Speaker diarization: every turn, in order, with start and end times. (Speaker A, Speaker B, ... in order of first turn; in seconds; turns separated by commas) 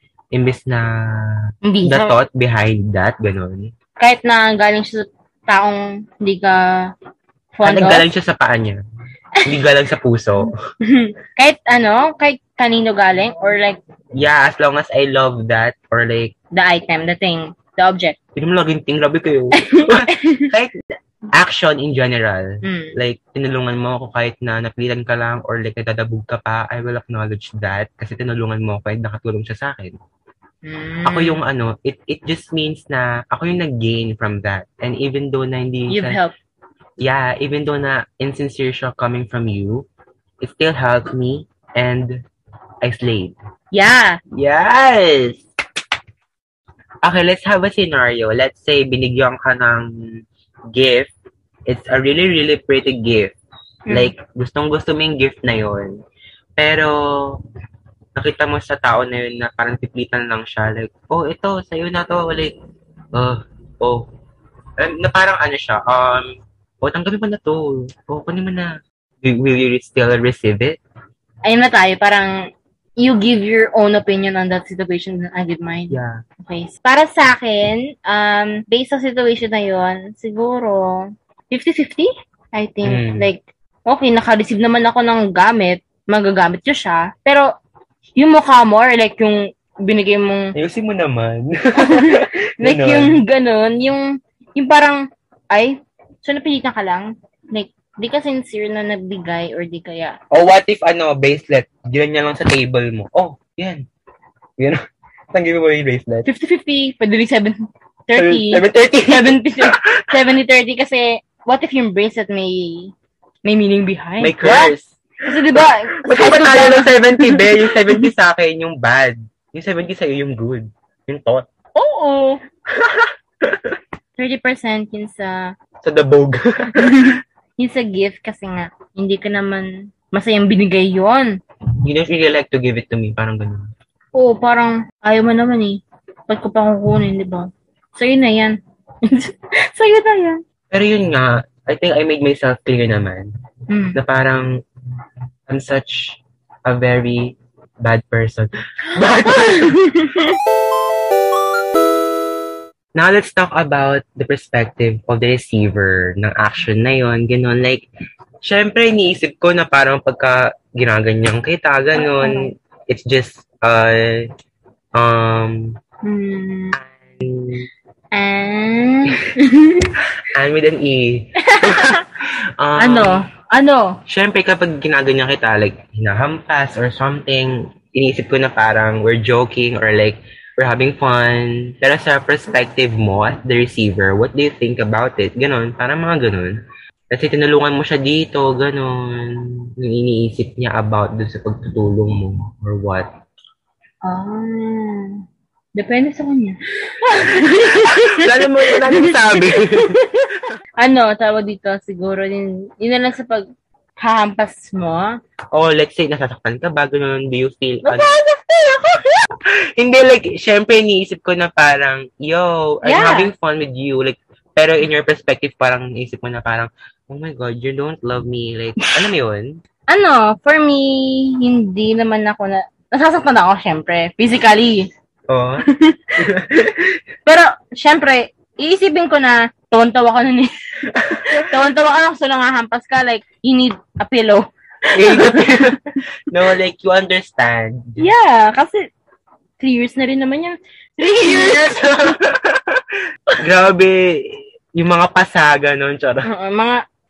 Speaker A: 0.3-3.7, Speaker B: 1.6-2.1, Speaker B: 4.0-6.9, Speaker B: 7.5-8.1, Speaker A: 7.6-8.8, Speaker B: 9.4-9.6, Speaker A: 9.4-10.5, Speaker B: 10.8-13.8, Speaker A: 14.2-16.3, Speaker B: 16.5-18.2, Speaker A: 18.4-20.7, Speaker B: 19.6-20.5, Speaker A: 21.3-30.0, Speaker B: 22.6-22.9, Speaker B: 30.6-31.4, Speaker A: 31.0-36.2, Speaker B: 35.9-36.3, Speaker A: 37.0-39.9, Speaker A: 40.4-42.2, Speaker A: 42.8-43.4, Speaker B: 43.7-44.2, Speaker A: 44.3-45.4, Speaker A: 47.0-51.1, Speaker A: 51.7-53.3, Speaker A: 53.9-56.0, Speaker A: 56.6-57.4, Speaker A: 58.1-62.5, Speaker A: 63.1-64.1, Speaker A: 64.8-70.8, Speaker B: 71.4-72.4, Speaker B: 73.0-87.5, Speaker A: 75.9-76.2, Speaker A: 82.8-83.3, Speaker B: 88.2-90.5, Speaker A: 90.5-93.2, Speaker B: 91.8-100.2, Speaker A: 100.3-103.8, Speaker A: 105.3-106.3, Speaker B: 106.2-112.9, Speaker A: 108.1-110.1, Speaker B: 113.4-114.7, Speaker A: 114.2-121.5, Speaker B: 115.2-118.1, Speaker B: 121.7-122.4, Speaker A: 122.8-123.8, Speaker B: 124.2-125.5, Speaker A: 125.8-127.2, Speaker B: 126.8-131.4, Speaker A: 131.8-133.7, Speaker B: 134.1-140.4, Speaker A: 140.7-143.3, Speaker B: 143.7-144.0, Speaker A: 143.9-144.6, Speaker A: 145.5-149.8, Speaker B: 149.1-150.4, Speaker A: 152.9-157.8, Speaker A: 158.4-164.3, Speaker B: 161.9-162.5, Speaker A: 164.9-165.8, Speaker B: 166.0-166.8, Speaker A: 166.7-167.7, Speaker B: 168.1-169.9, Speaker A: 170.2-172.0, Speaker B: 171.4-172.0, Speaker A: 172.6-173.2, Speaker B: 172.8-174.0, Speaker A: 174.1-186.6, Speaker A: 187.1-193.1, Speaker B: 194.0-195.2, Speaker B: 195.7-200.2, Speaker A: 197.3-200.0, Speaker B: 200.8-203.4, Speaker B: 204.0-205.1, Speaker A: 205.5-208.2, Speaker B: 207.8-209.2, Speaker A: 209.8-219.6, Speaker B: 212.8-213.3, Speaker B: 219.9-224.9, Speaker A: 225.3-225.7, Speaker B: 225.6-226.2, Speaker A: 226.2-227.0, Speaker B: 227.2-236.5, Speaker A: 230.9-231.5, Speaker A: 234.9-238.1, Speaker B: 238.0-238.9, Speaker B: 239.6-241.8, Speaker A: 241.0-242.8, Speaker A: 243.4-246.3, Speaker B: 246.2-246.8